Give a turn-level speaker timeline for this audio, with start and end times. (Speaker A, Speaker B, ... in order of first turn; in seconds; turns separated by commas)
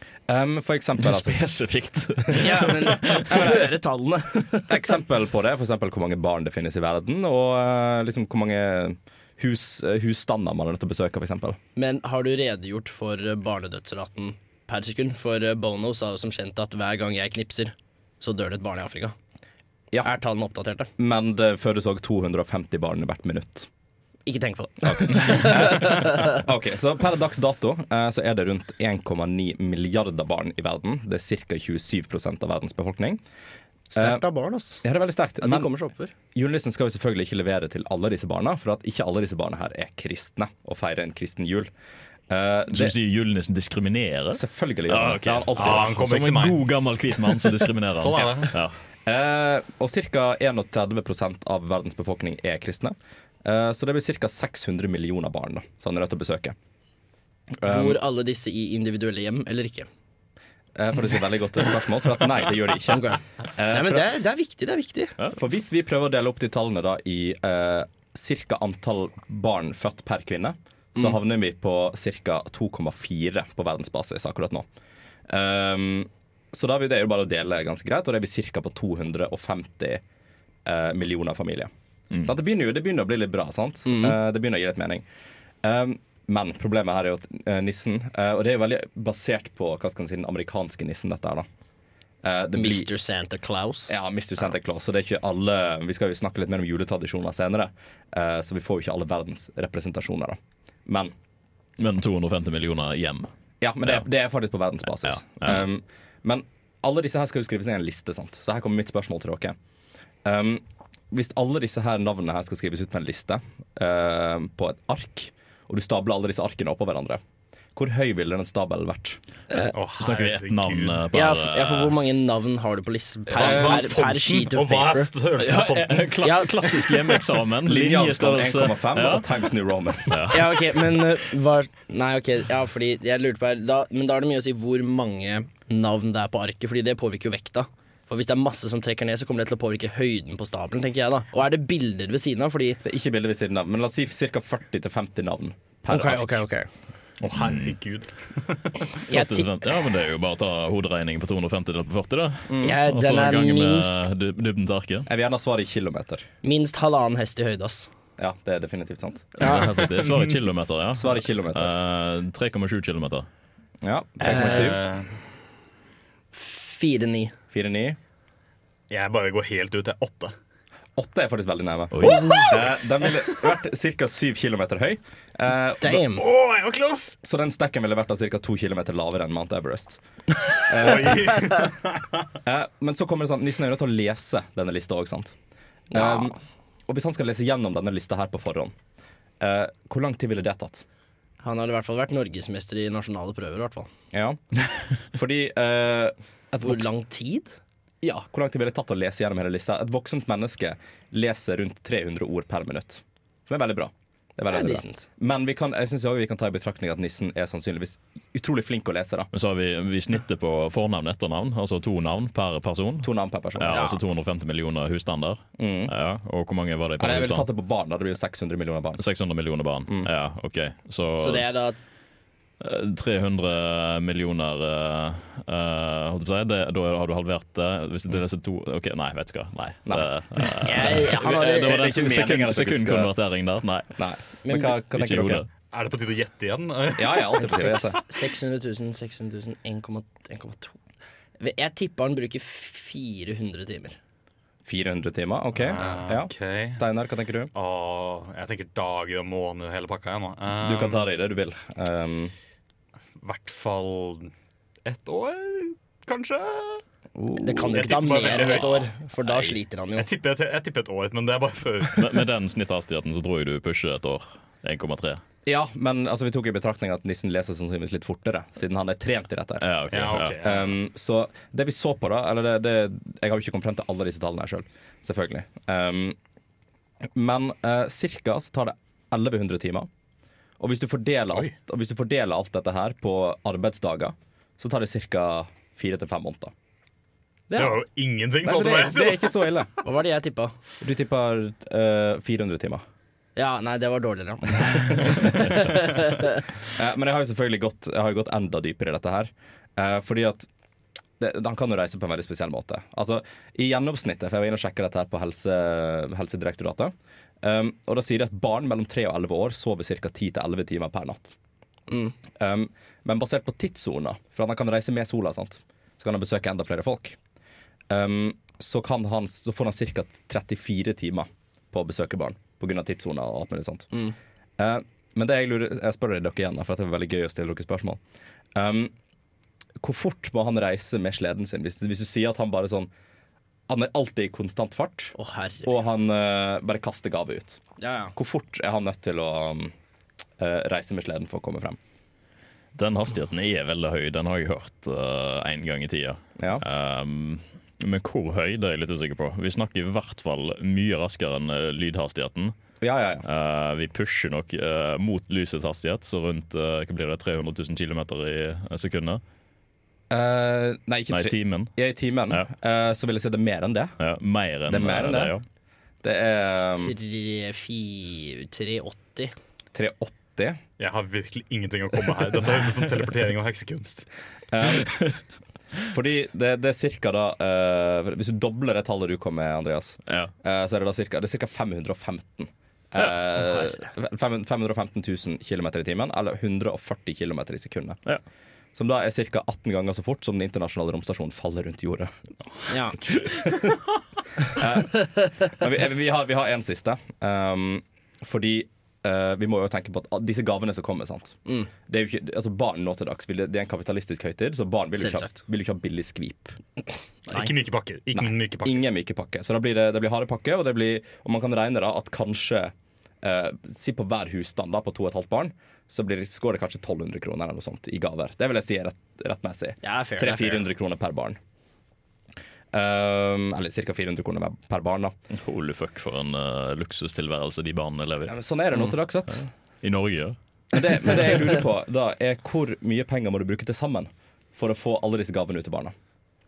Speaker A: 0.3-1.5, Speaker B: 1.0-3.3, Speaker C: 2.3-4.7, Speaker A: 3.1-3.6, Speaker A: 4.7-11.6, Speaker C: 11.8-19.1, Speaker C: 20.0-20.9, Speaker A: 21.0-23.7, Speaker C: 24.2-26.3, Speaker A: 24.8-33.2, Speaker C: 33.9-34.8, Speaker A: 34.0-34.2, Speaker A: 34.8-35.7, Speaker C: 35.4-36.1, Speaker A: 36.3-41.7, Speaker A: 42.3-42.9, Speaker B: 42.7-48.8, Speaker A: 44.3-46.0, Speaker D: 45.5-46.7, Speaker D: 48.0-48.6, Speaker A: 49.0-56.5, Speaker A: 57.6-58.0, Speaker C: 57.6-59.9, Speaker A: 60.7-64.1, Speaker C: 62.9-65.2, Speaker A: 65.3-74.7, Speaker A: 75.3-80.0, Speaker A: 80.6-81.7, Speaker A: 82.2-85.0, Speaker C: 83.8-84.1, Speaker A: 85.6-91.5, Speaker A: 92.2-92.9, Speaker C: 92.5-93.9, Speaker A: 93.9-101.1, Speaker B: 101.8-103.3, Speaker A: 103.6-109.5, Speaker B: 105.1-105.6, Speaker A: 110.2-117.2, Speaker A: 117.8-119.2, Speaker D: 119.7-121.1, Speaker B: 120.0-121.9, Speaker C: 121.1-125.1, Speaker D: 123.3-126.1, Speaker A: 123.4-123.9, Speaker B: 125.4-129.4, Speaker C: 126.2-127.1, Speaker A: 127.6-130.4, Speaker B: 130.1-131.0, Speaker C: 130.3-142.8, Speaker A: 142.8-146.4, Speaker C: 145.9-146.7, Speaker D: 147.2-148.9, Speaker B: 147.2-147.8, Speaker B: 149.1-155.1, Speaker C: 149.1-149.6, Speaker A: 152.5-152.8, Speaker C: 152.6-154.1, Speaker A: 155.1-156.3, Speaker C: 156.4-157.9, Speaker A: 158.2-159.4, Speaker B: 159.4-163.3, Speaker C: 159.4-159.7, Speaker A: 160.9-161.7, Speaker A: 163.8-164.8, Speaker D: 164.2-165.1, Speaker C: 166.3-167.3, Speaker A: 167.5-168.0, Speaker D: 168.9-170.3, Speaker A: 171.0-176.0, Speaker B: 171.9-172.5, Speaker C: 175.8-176.2, Speaker D: 176.2-177.2, Speaker A: 177.2-180.0, Speaker A: 180.6-181.4, Speaker D: 180.7-182.3, Speaker A: 182.4-185.3, Speaker A: 185.9-186.4, Speaker C: 185.9-186.4, Speaker A: 186.9-188.7, Speaker A: 189.4-190.8, Speaker C: 191.4-193.9, Speaker A: 194.1-194.4, Speaker A: 195.1-196.9, Speaker C: 196.6-197.5, Speaker A: 198.0-209.3, Speaker C: 204.5-205.0, Speaker B: 209.3-217.4, Speaker A: 213.0-213.9, Speaker C: 213.7-214.0, Speaker A: 215.6-215.9, Speaker A: 217.0-219.0, Speaker B: 219.0-221.5, Speaker C: 221.2-221.8, Speaker B: 222.6-233.9, Speaker A: 229.8-230.1, Speaker A: 230.6-233.1, Speaker C: 230.7-231.8, Speaker A: 233.9-235.4, Speaker C: 234.4-234.7, Speaker B: 234.9-235.5, Speaker D: 235.7-238.1, Speaker A: 236.9-238.0, Speaker C: 238.0-240.8, Speaker C: 241.4-244.0, Speaker A: 244.7-247.5, Speaker D: 245.6-246.8, Speaker D: 247.5-251.1, Speaker A: 250.5-252.3, Speaker D: 253.2-254.3, Speaker D: 254.8-256.8, Speaker A: 257.1-258.0, Speaker C: 257.4-260.1, Speaker D: 257.7-262.2, Speaker B: 261.9-265.2, Speaker A: 265.4-269.7, Speaker B: 269.6-270.4, Speaker D: 269.9-270.7, Speaker A: 270.4-276.2, Speaker A: 277.1-279.9, Speaker A: 280.6-286.5, Speaker A: 287.5-287.8, Speaker D: 287.5-289.4, Speaker A: 288.4-289.7, Speaker C: 289.8-290.6, Speaker A: 290.8-292.8, Speaker C: 293.4-296.4, Speaker A: 296.7-300.5, Speaker A: 301.2-311.3, Speaker C: 311.9-312.1, Speaker A: 312.3-317.2, Speaker A: 317.9-323.9, Speaker A: 324.6-328.0, Speaker A: 328.5-328.9, Speaker A: 329.8-332.9, Speaker A: 333.7-337.6, Speaker C: 335.1-335.7, Speaker C: 337.8-338.1, Speaker A: 338.1-339.7, Speaker A: 340.4-341.8, Speaker B: 342.7-352.6, Speaker A: 352.8-353.2, Speaker B: 353.2-359.2, Speaker A: 360.1-363.9, Speaker B: 361.1-361.7, Speaker B: 364.0-365.4, Speaker A: 364.7-365.4, Speaker A: 366.0-366.9, Speaker C: 366.8-369.3, Speaker A: 369.7-370.6, Speaker D: 370.8-374.1, Speaker A: 374.5-375.0, Speaker A: 375.9-388.0, Speaker B: 380.1-380.3, Speaker C: 383.5-383.9, Speaker A: 388.7-392.1, Speaker C: 392.7-393.0, Speaker A: 394.5-406.6, Speaker C: 405.0-405.4, Speaker D: 407.3-408.8, Speaker A: 408.1-421.4, Speaker C: 419.8-420.6, Speaker A: 422.7-425.1, Speaker B: 425.3-428.4, Speaker A: 428.3-429.5, Speaker B: 429.8-430.4, Speaker A: 430.7-435.9